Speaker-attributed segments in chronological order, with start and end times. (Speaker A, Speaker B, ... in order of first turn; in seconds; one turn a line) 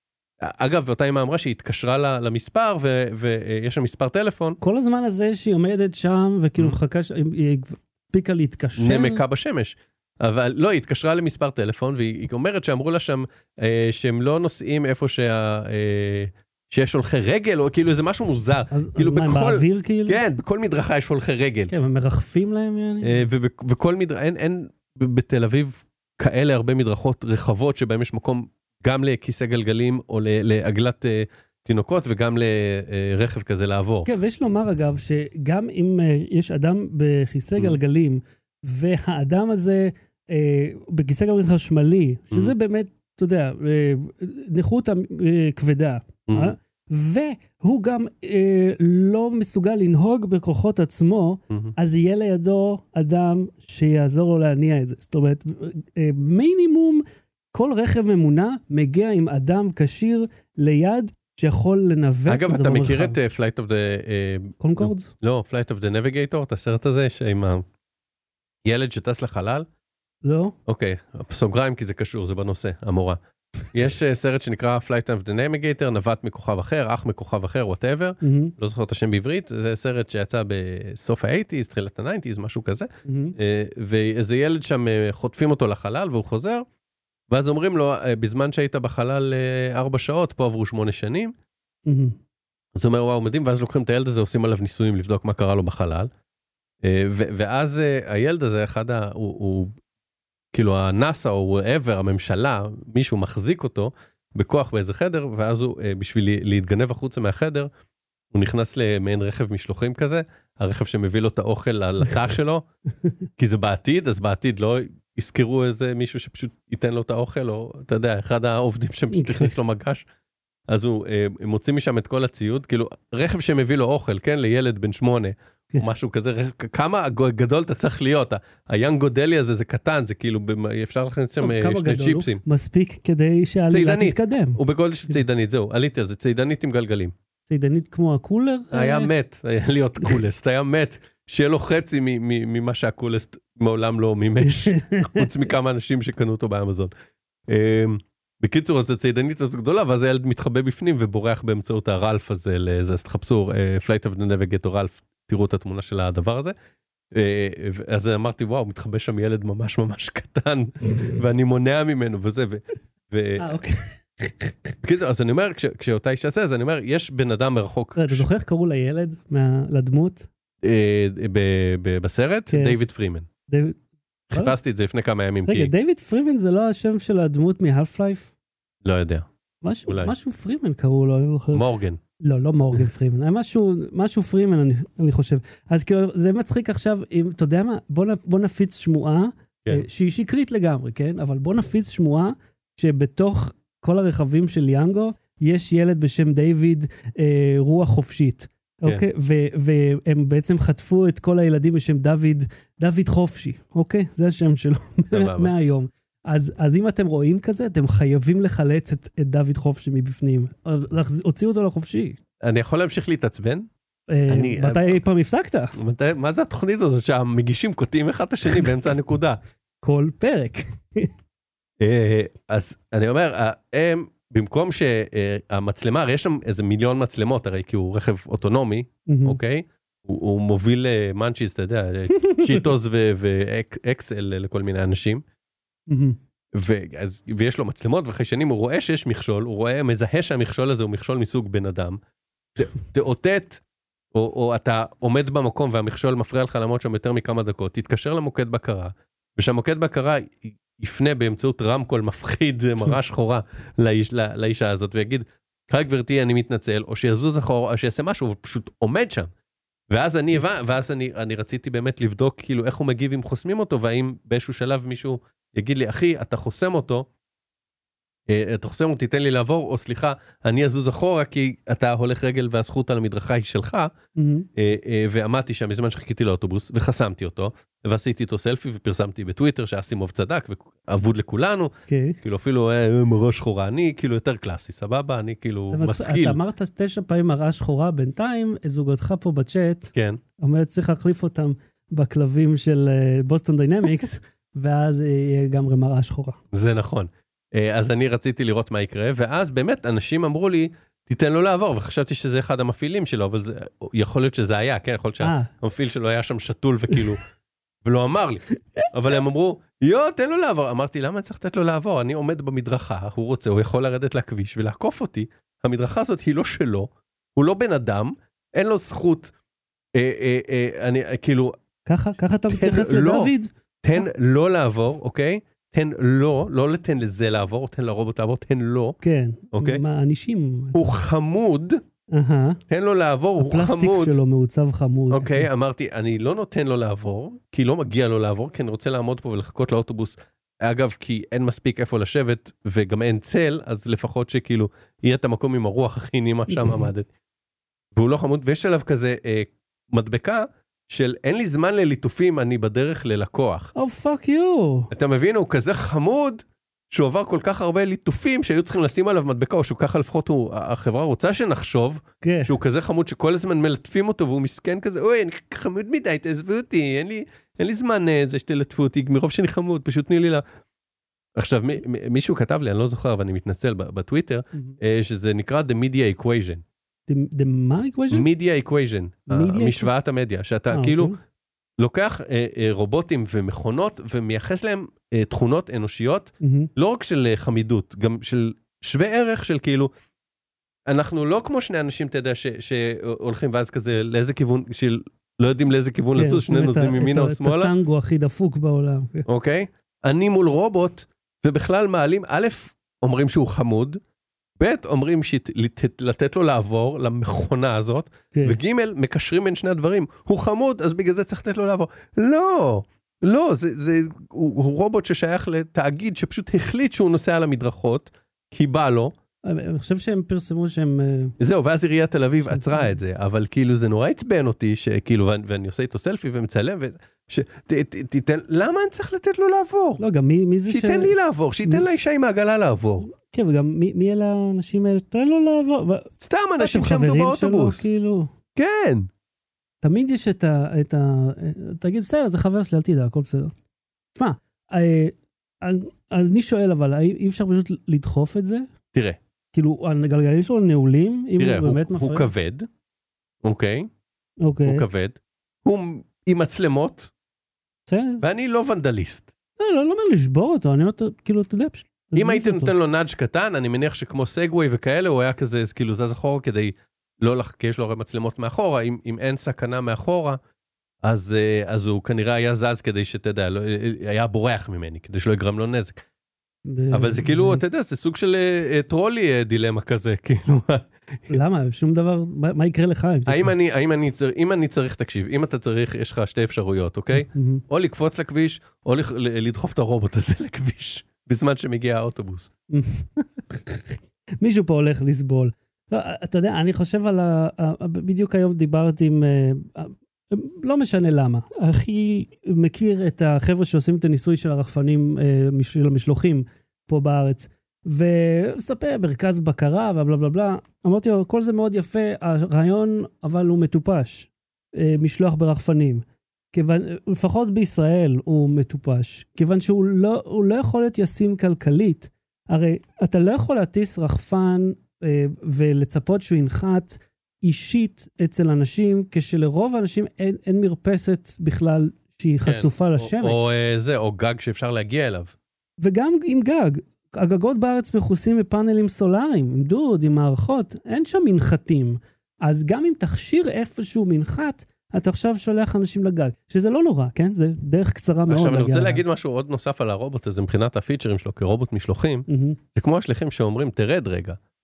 Speaker A: 0.4-4.6
Speaker B: 4.6-9.2
Speaker A: 8.8-21.7
Speaker B: 18.7-20.2
Speaker B: 21.7-23.2
Speaker A: 23.0-34.1
Speaker B: 34.0-63.2
Speaker A: 46.3-46.5
Speaker A: 51.5-51.8
Speaker A: 62.3-67.7
Speaker B: 64.6-65.1
Speaker A: 68.7-69.7
Speaker B: 70.2-70.5
Speaker A: 70.7-73.2
Speaker A: 73.7-86.7
Speaker B: 78.2-78.5
Speaker B: 83.0-83.4
Speaker A: 87.3-91.3
Speaker B: 91.9-92.2
Speaker A: 92.8-96.1
Speaker A: 96.8-99.8
Speaker A: 100.5-107.7
Speaker A: 108.3-112.7
Speaker A: 113.4-120.0
Speaker B: 119.1-119.5
Speaker A: 120.7-132.4
Speaker B: 131.4-135.2
Speaker A: 133.7-137.1
Speaker B: 137.5-139.1
Speaker A: 138.7-146.9
Speaker B: 144.4-145.3
Speaker A: 147.5-156.6
Speaker A: 157.1-163.6
Speaker B: 163.4-164.8
Speaker A: 164.8-168.3
Speaker B: 167.9-170.3
Speaker A: 170.6-173.3
Speaker B: 172.5-172.8
Speaker B: 173.5-173.8
Speaker A: 174.3-175.7
Speaker B: 175.5-178.3
Speaker A: 178.8-179.3
Speaker B: 179.6-181.7
Speaker A: 179.9-180.1
Speaker A: 181.5-182.0
Speaker B: 182.2-212.2
Speaker A: 205.1-205.5
Speaker A: 212.4-213.7
Speaker B: 214.1-215.8
Speaker A: 214.3-215.0
Speaker A: 215.8-219.4
Speaker B: 219.8-221.1
Speaker A: 221.8-235.2
Speaker B: 229.1-229.4
Speaker B: 232.2-232.7
Speaker B: 235.9-236.2
Speaker A: 236.5-242.0
Speaker A: 242.6-243.6
Speaker A: 244.1-259.3
Speaker A: 259.9-267.1
Speaker A: 268.3-273.9
Speaker B: 274.2-274.5
Speaker A: 274.6-286.4
Speaker B: 281.9-282.2
Speaker B: 285.7-296.4
Speaker A: 289.9-290.2
Speaker A: 296.5-307.2
Speaker B: 305.2-305.5
Speaker A: 307.8-319.3
Speaker A: 319.9-321.5
Speaker B: 321.9-324.1
Speaker A: 322.5-323.3
Speaker A: 323.8-329.0
Speaker B: 329.0-330.9
Speaker A: 329.5-329.8
Speaker A: 330.7-331.8
Speaker B: 332.1-332.6
Speaker A: 332.7-334.2
Speaker B: 333.4-335.5
Speaker A: 335.1-347.1
Speaker B: 346.5-346.8
Speaker A: 347.9-353.7
Speaker B: 353.8-354.9
Speaker A: 354.9-370.4
Speaker B: 362.2-362.5
Speaker A: 371.4-376.6
Speaker B: 377.1-378.3
Speaker A: 378.1-381.1
Speaker B: 379.3-379.9
Speaker B: 380.7-381.2
Speaker A: 381.8-389.9
Speaker B: 386.4-386.7
Speaker A: 390.9-397.7
Speaker B: 396.1-399.3
Speaker A: 399.3-404.0
Speaker A: 404.6-419.1
Speaker B: 419.4-421.4
Speaker A: 421.4-430.0
Speaker B: 422.5-422.9
Speaker B: 430.0-431.9
Speaker A: 430.7-433.1
Speaker B: 433.0-438.3
Speaker A: 436.2-437.9
Speaker A: 438.6-439.1
Speaker B: 439.8-443.5
Speaker B: 444.1-448.7
Speaker A: 448.9-449.2
Speaker B: 449.5-452.3
Speaker A: 451.4-452.7
Speaker A: 453.4-453.9
Speaker B: 454.4-454.9
Speaker A: 454.6-457.1
Speaker B: 457.9-458.2
Speaker A: 458.2-459.3
Speaker B: 459.6-462.7
Speaker A: 462.2-470.4
Speaker A: 471.0-476.0
Speaker B: 476.7-477.6
Speaker A: 476.9-481.4
Speaker B: 481.3-483.6
Speaker A: 483.3-492.5
Speaker B: 487.2-487.6
Speaker B: 492.7-533.5
Speaker A: 532.4-535.3
Speaker B: 535.8-549.0
Speaker A: 548.3-554.4
Speaker B: 552.3-552.6